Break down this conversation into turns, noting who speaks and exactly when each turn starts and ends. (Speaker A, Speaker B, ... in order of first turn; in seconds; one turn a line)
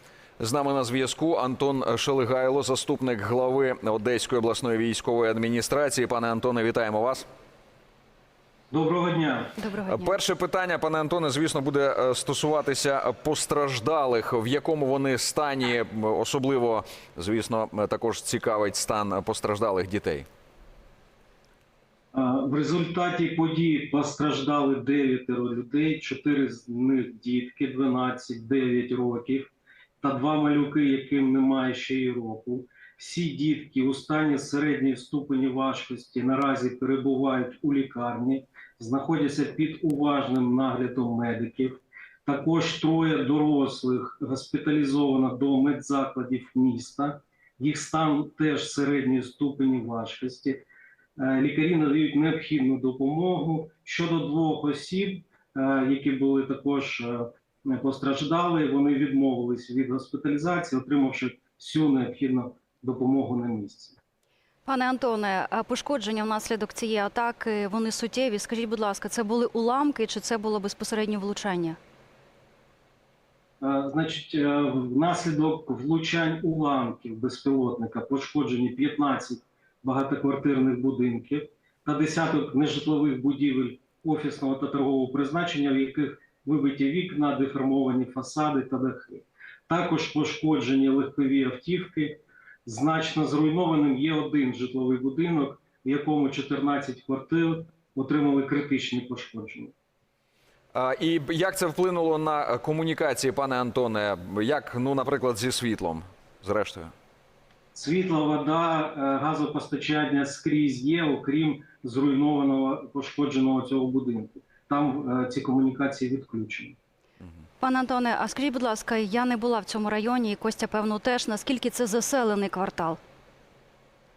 Speaker A: 0.4-7.2
Speaker B: 8.7-9.5
Speaker C: 9.6-10.1
Speaker A: 9.9-20.2
Speaker B: 22.1-29.5
Speaker B: 30.0-50.6
Speaker B: 51.2-64.0
Speaker C: 64.7-71.8
Speaker B: 73.6-99.7
Speaker A: 100.7-106.9
Speaker B: 107.7-116.8
Speaker C: 117.6-123.0